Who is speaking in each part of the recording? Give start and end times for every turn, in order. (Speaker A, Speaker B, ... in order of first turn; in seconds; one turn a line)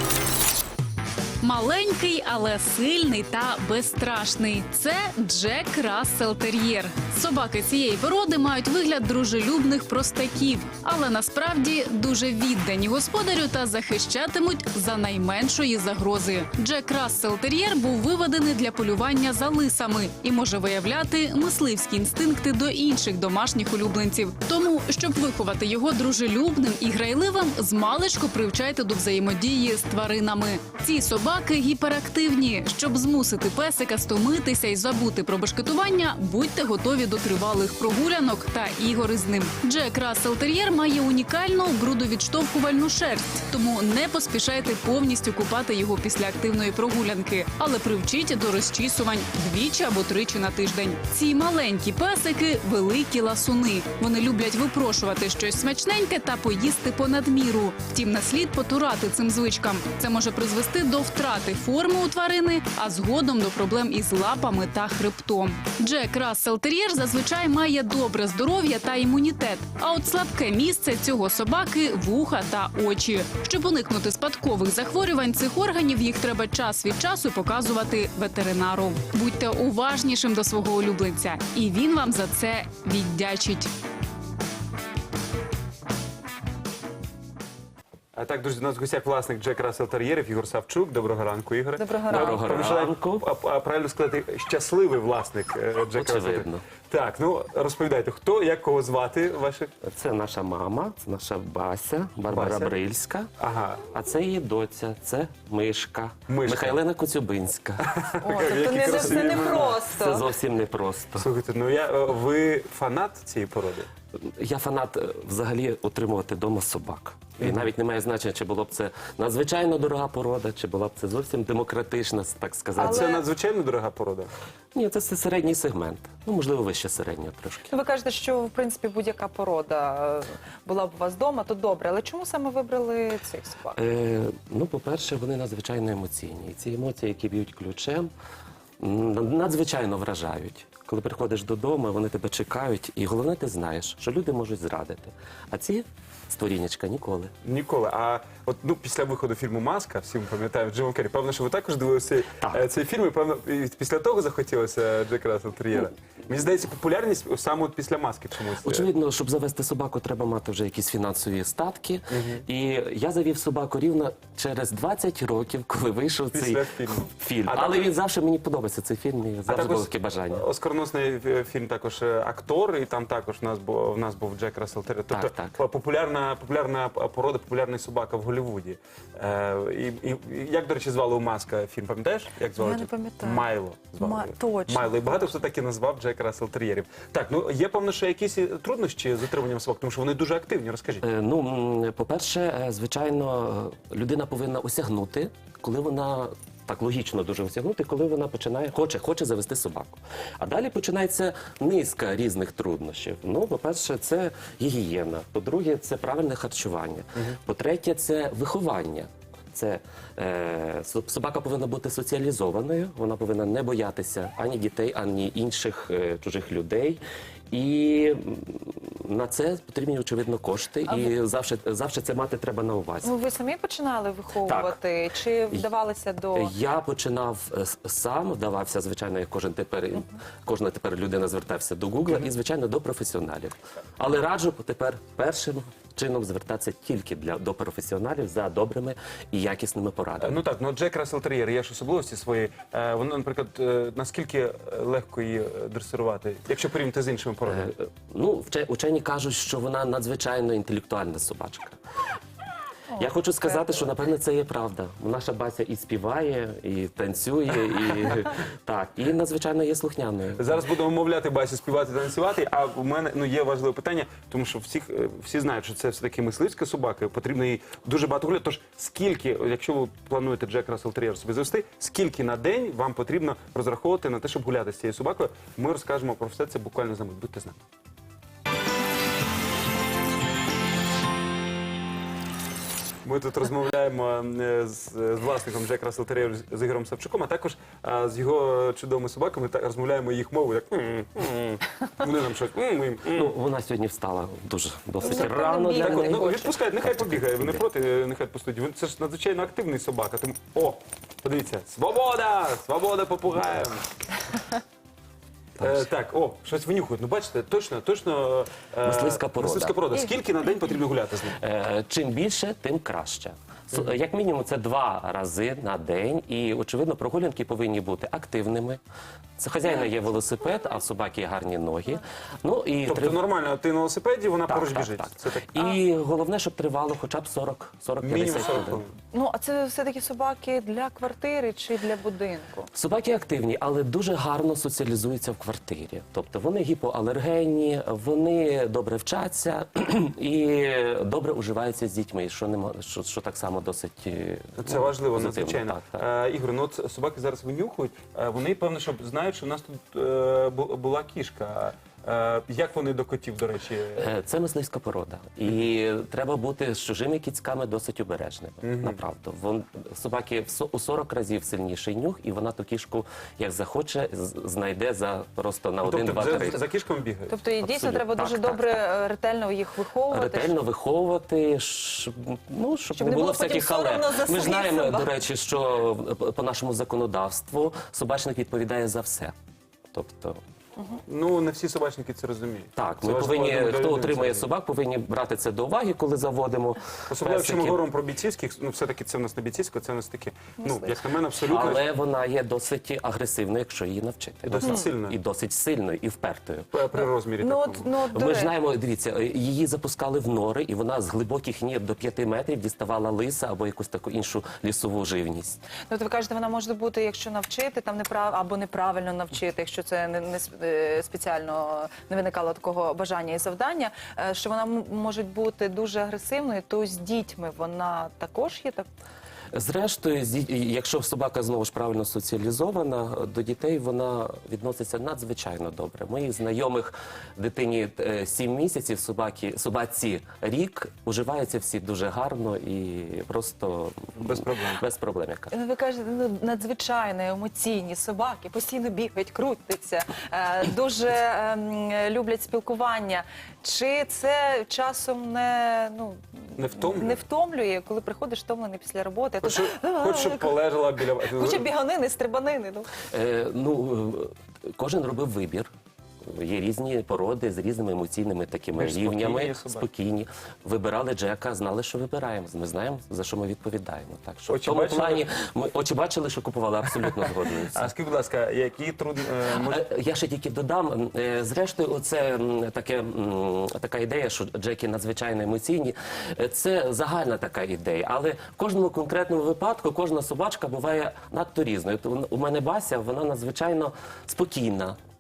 Speaker A: 1.4-83.7
Speaker B: 88.2-99.7
Speaker C: 91.8-92.5
Speaker D: 92.1-93.2
Speaker D: 96.0-96.6
Speaker D: 99.8-103.3
Speaker B: 102.3-102.7
Speaker B: 103.4-103.8
Speaker D: 103.8-107.9
Speaker B: 106.3-106.8
Speaker B: 107.9-109.8
Speaker C: 108.2-110.3
Speaker D: 108.9-111.3
Speaker B: 111.2-113.9
Speaker D: 114.2-123.1
Speaker C: 122.8-123.2
Speaker B: 122.8-124.3
Speaker D: 124.7-127.7
Speaker C: 127.7-133.8
Speaker D: 133.8-138.1
Speaker D: 138.8-147.3
Speaker B: 147.4-158.9
Speaker D: 158.6-170.4
Speaker B: 162.1-162.4
Speaker B: 166.3-167.9
Speaker B: 169.5-191.0
Speaker D: 175.1-175.6
Speaker C: 182.6-185.3
Speaker D: 191.0-223.2
Speaker C: 220.9-221.1
Speaker C: 223.0-226.5
Speaker D: 224.4-224.8
Speaker D: 226.3-240.4
Speaker B: 240.2-247.7
Speaker D: 247.5-251.8
Speaker C: 252.9-253.9
Speaker D: 253.0-260.5
Speaker B: 260.4-277.6
Speaker B: 283.0-293.3
Speaker D: 293.1-297.6
Speaker C: 295.0-296.5
Speaker B: 295.1-303.9
Speaker B: 305.6-311.4
Speaker D: 308.8-309.8
Speaker D: 311.4-318.8
Speaker D: 319.4-323.2
Speaker B: 322.9-325.8
Speaker D: 324.5-328.8
Speaker B: 328.0-329.0
Speaker C: 329.1-332.7
Speaker D: 332.7-346.0
Speaker B: 344.6-354.1
Speaker D: 354.0-366.6
Speaker B: 358.6-359.0
Speaker B: 365.8-367.4
Speaker C: 367.3-370.6
Speaker D: 367.6-368.8
Speaker D: 370.1-379.3
Speaker C: 372.9-375.1
Speaker D: 379.9-380.4
Speaker B: 381.1-384.5
Speaker D: 382.8-387.8
Speaker B: 387.1-391.9
Speaker C: 390.6-391.0
Speaker D: 391.4-396.7
Speaker B: 394.4-395.2
Speaker C: 394.6-394.9
Speaker B: 396.7-397.8
Speaker C: 396.9-398.5
Speaker D: 398.1-405.6
Speaker C: 405.9-418.9
Speaker D: 419.5-434.1
Speaker B: 434.2-434.8
Speaker D: 434.7-435.5
Speaker C: 435.5-452.9
Speaker B: 446.6-447.2
Speaker B: 449.4-451.7
Speaker D: 453.1-455.7
Speaker D: 456.2-467.9
Speaker B: 458.8-459.9
Speaker B: 464.5-465.3
Speaker B: 467.7-469.8
Speaker D: 469.6-485.0